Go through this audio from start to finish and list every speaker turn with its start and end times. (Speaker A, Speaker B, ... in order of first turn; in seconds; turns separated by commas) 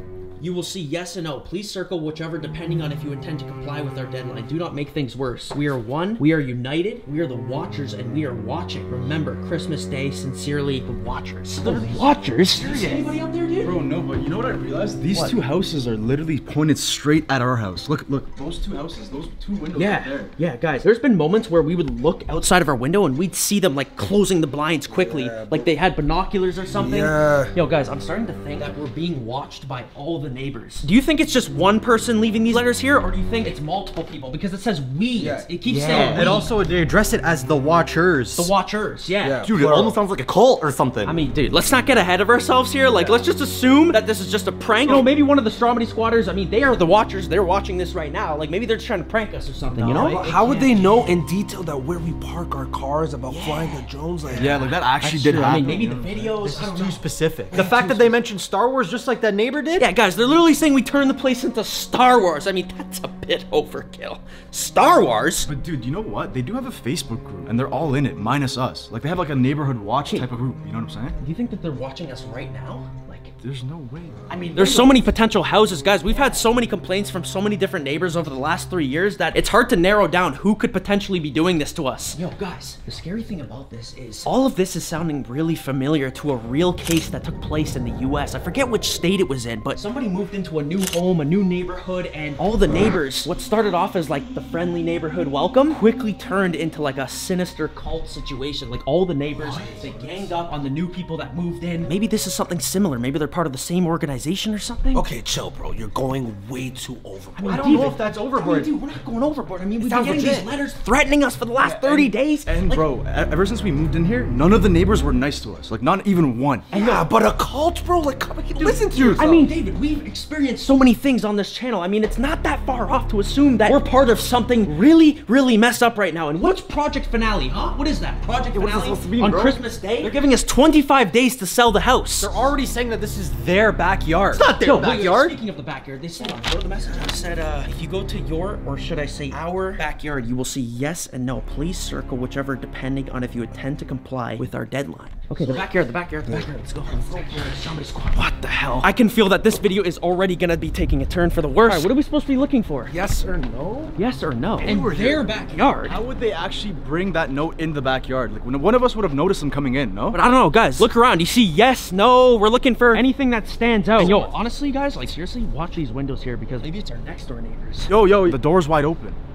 Speaker A: 0.4-13.7, Speaker B: 11.6-20.3, Speaker A: 19.7-36.5, Speaker C: 24.9-25.7, Speaker C: 26.7-27.5, Speaker C: 35.1-35.5, Speaker D: 35.6-38.5, Speaker A: 38.3-39.4, Speaker C: 39.2-40.0, Speaker D: 39.4-41.2, Speaker A: 41.0-50.8, Speaker D: 49.7-50.6, Speaker C: 49.9-54.7, Speaker A: 53.3-53.8, Speaker B: 54.3-56.6, Speaker A: 55.0-58.1, Speaker D: 56.4-59.9, Speaker A: 59.8-65.5, Speaker B: 65.5-71.2, Speaker A: 71.2-73.3, Speaker B: 73.4-74.5, Speaker D: 74.3-75.1, Speaker A: 74.5-105.0, Speaker C: 99.3-99.9, Speaker C: 104.9-107.8, Speaker A: 107.4-112.8, Speaker D: 107.4-108.8, Speaker D: 110.0-110.5, Speaker B: 111.6-116.7, Speaker A: 116.7-117.0, Speaker C: 116.7-119.5, Speaker A: 118.6-132.3, Speaker B: 118.8-119.3, Speaker D: 128.5-130.1, Speaker D: 132.2-135.4, Speaker A: 134.3-147.4, Speaker C: 146.2-146.6, Speaker D: 147.1-147.8, Speaker A: 148.8-152.9, Speaker C: 152.9-153.9, Speaker A: 153.9-156.0, Speaker B: 154.6-160.2, Speaker A: 160.1-167.9, Speaker B: 164.0-164.3, Speaker B: 167.9-169.2